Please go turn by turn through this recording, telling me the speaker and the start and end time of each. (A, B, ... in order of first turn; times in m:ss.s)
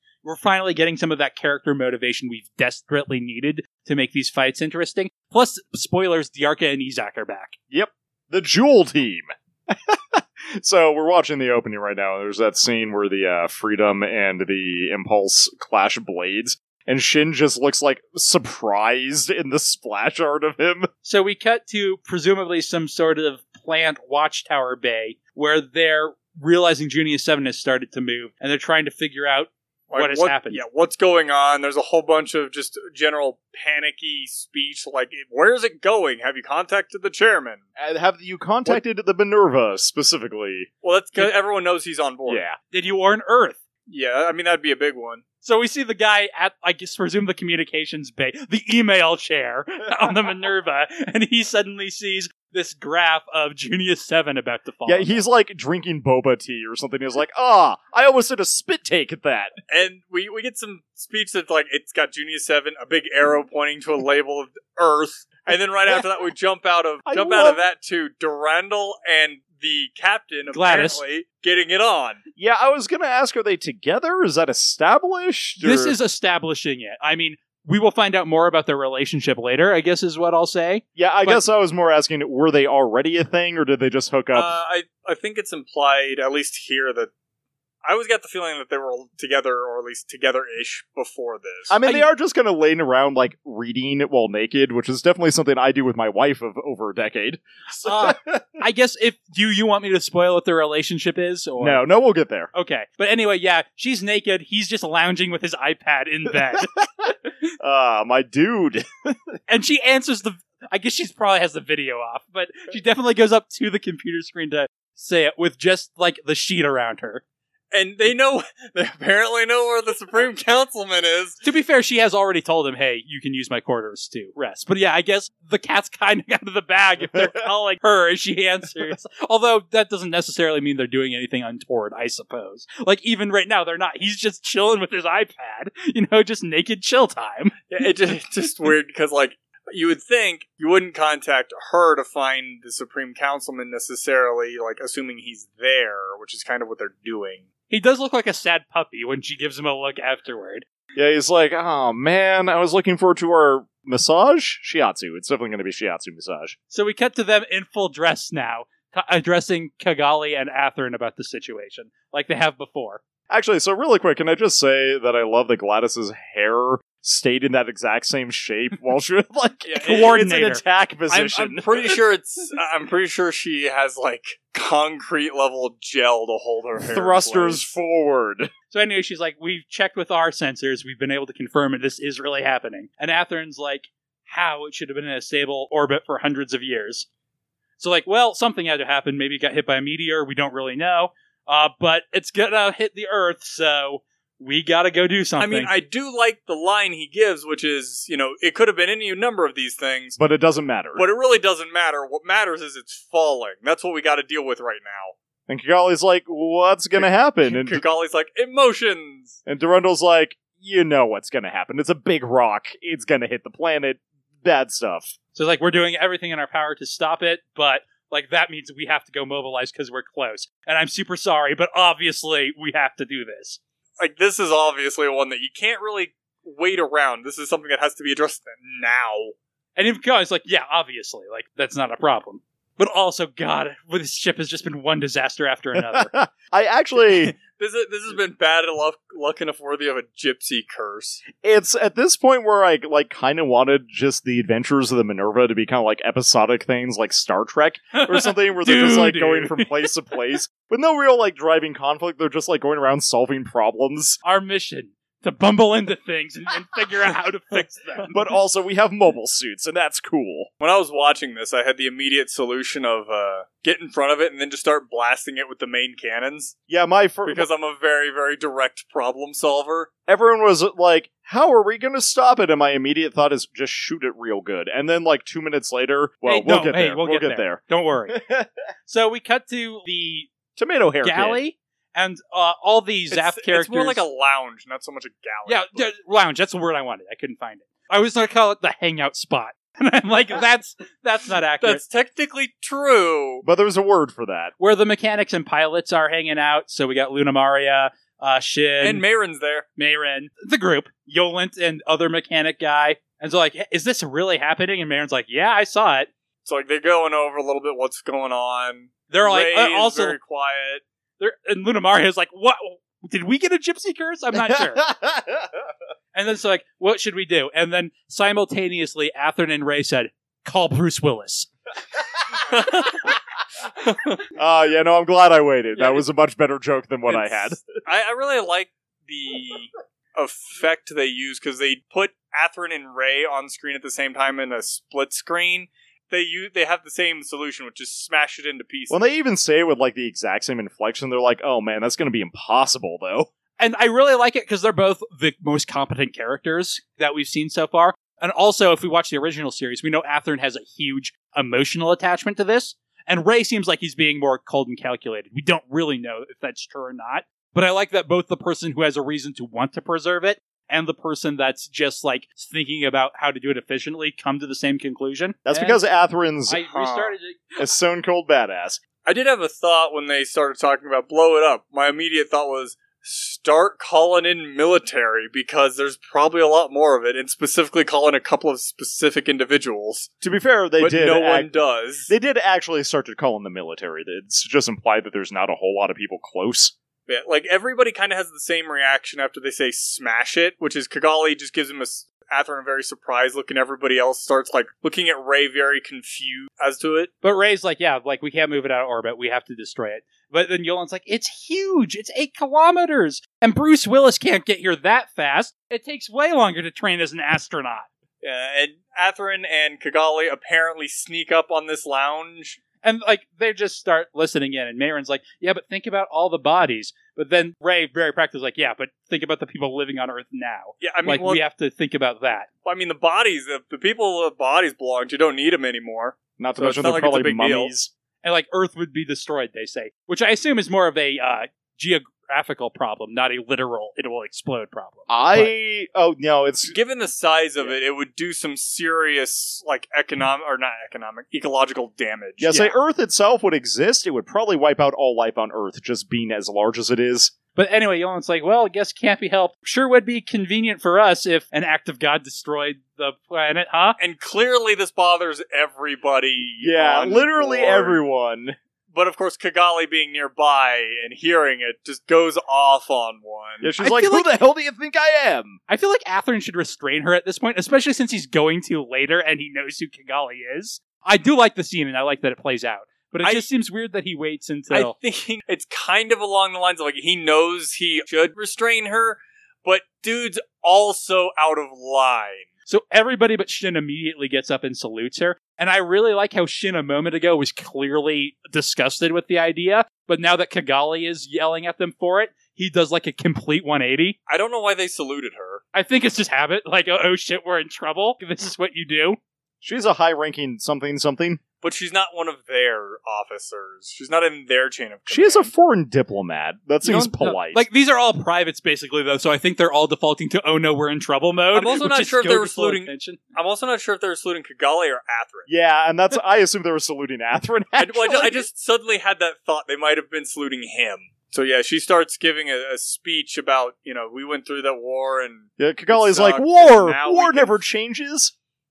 0:00.2-0:07.6 A
0:07.7-0:20.9 B
0:21.0-0:30.6 A
0:29.9-0:37.6 C
0:37.8-0:40.7 B
0:40.8-0:42.4 C
0:42.3-0:42.6 B
0:42.7-0:43.6 A
0:43.9-0:45.2 C
0:45.4-0:55.2 A
0:54.9-0:59.6 B
0:59.7-1:12.2 C
1:07.1-1:07.7 B
1:10.5-1:11.0 A
1:12.4-1:16.0 B
1:15.6-1:21.4 A
1:21.0-1:24.5 B
1:24.3-1:27.1 C
1:27.8-1:31.8 C
1:31.7-1:38.6 B
1:37.8-1:41.8 A
1:41.6-1:42.5 B
1:42.5-1:46.7 A
1:46.6-1:47.1 B
1:47.6-1:49.3 B
1:49.5-1:57.2 A
1:57.7-2:01.4 C
2:01.4-2:17.6 A
2:07.0-2:07.4 B
2:17.7-2:27.5 C
2:27.7-2:30.6 A
2:31.0-2:36.6 B
2:36.7-2:43.0 A
2:43.3-2:52.0 B
2:49.6-2:50.2 C
2:49.8-2:50.6 A
2:51.1-2:57.7 C
2:56.8-2:58.5 B
2:58.7-3:07.1 A
3:07.8-3:15.7 A
3:15.4-3:20.2 C
3:20.2-3:21.0 B
3:21.0-3:25.1 C
3:25.5-3:27.8 B
3:27.0-3:29.4 C
3:29.5-3:35.2 B
3:35.4-3:43.6 A
3:44.0-3:49.4 C
3:49.8-3:56.1 A
3:55.7-3:57.4 B
3:57.1-4:01.2 C
4:01.4-4:14.2 B
4:07.9-4:09.7 A
4:14.2-4:18.2 A
4:18.1-4:20.5 B
4:20.6-4:26.6 C
4:26.7-4:27.5 B
4:27.2-4:29.9 C
4:30.1-4:38.5 B
4:36.3-4:38.2 A
4:38.9-4:40.3 A
4:40.6-4:41.4 B
4:41.0-4:44.0 A
4:43.1-4:45.8 C
4:45.5-4:51.8 A
4:51.6-4:53.4 C
4:53.4-4:54.5 B
4:54.6-4:59.0 A
4:58.8-4:59.7 C
4:59.8-5:06.1 A
5:06.4-5:10.8 C
5:09.1-5:10.2 A
5:11.2-5:14.8 A
5:14.4-5:15.5 B
5:16.1-5:21.5 A
5:22.4-5:23.2 C
5:23.8-5:24.2 C
5:24.4-5:27.6 B
5:25.8-5:26.0 C
5:27.1-5:39.0 C
5:38.9-5:43.3 B
5:43.6-6:05.8 A
6:05.4-6:06.6 B
6:06.5-6:07.6 A
6:06.7-6:07.2 C
6:07.6-6:08.8 B
6:09.0-6:20.1 C
6:20.2-6:21.5 B
6:20.8-6:22.1 C
6:22.1-6:26.7 B
6:27.1-6:37.1 C
6:37.2-6:47.9 A
6:48.2-6:52.6 C
6:52.8-7:02.5 A
7:00.8-7:01.4 C
7:02.6-7:07.7 C
7:06.4-7:07.9 B
7:08.2-7:15.5 A
7:15.1-7:16.8 B
7:16.7-7:22.5 C
7:22.4-7:27.3 B
7:27.6-7:34.0 A
7:34.0-7:38.0 C
7:36.6-7:38.6 B
7:38.9-7:43.7 C
7:43.6-7:45.6 B
7:43.8-7:44.3 A
7:45.7-7:54.9 A
7:54.7-8:02.5 C
8:02.7-8:14.2 A
8:14.3-8:15.6 C
8:15.7-8:19.2 A
8:19.6-8:21.4 B
8:21.6-8:25.5 C
8:25.1-8:27.6 B
8:26.8-8:33.2 A
8:31.5-8:35.5 C
8:35.5-8:38.5 B
8:37.8-8:47.6 C
8:45.6-8:48.3 B